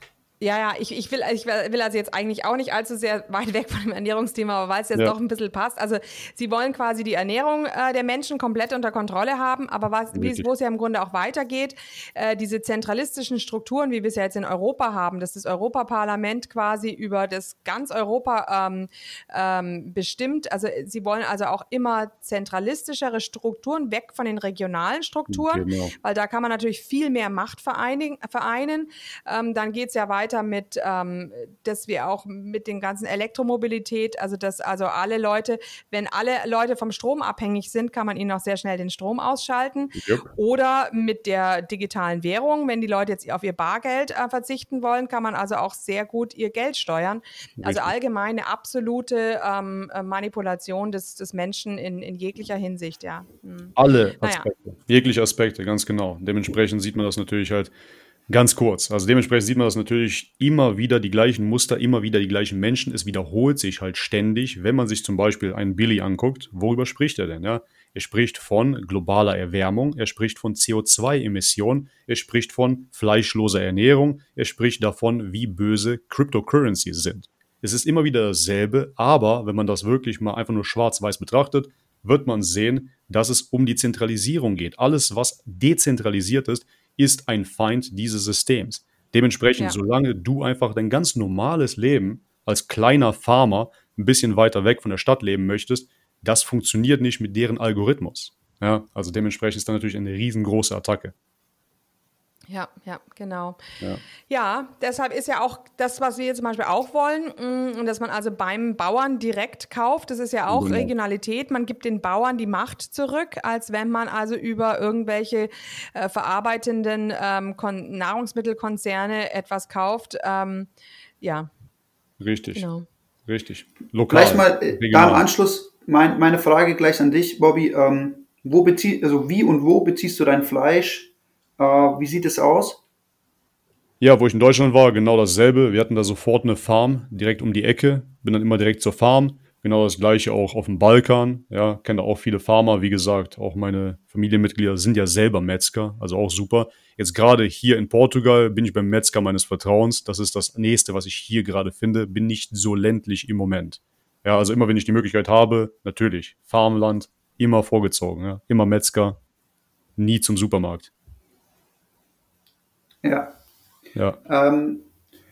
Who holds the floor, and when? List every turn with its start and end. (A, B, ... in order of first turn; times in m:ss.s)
0:00.4-0:54.5 A
0:10.1-0:10.5 B
0:25.3-0:25.9 B
0:39.9-0:40.3 B
0:47.6-0:47.9 B
0:53.8-0:57.7 B
0:58.3-1:41.1 B
1:42.5-1:43.6 A
1:44.3-2:00.7 A
1:50.5-1:50.9 B
2:01.2-2:01.5 A
2:02.2-2:02.6 B
2:02.5-2:02.8 A
2:03.3-2:05.2 B
2:04.1-2:12.8 C
2:14.0-2:39.2 B
2:40.0-2:40.9 B
2:43.0-2:43.3 C
2:44.2-2:44.8 C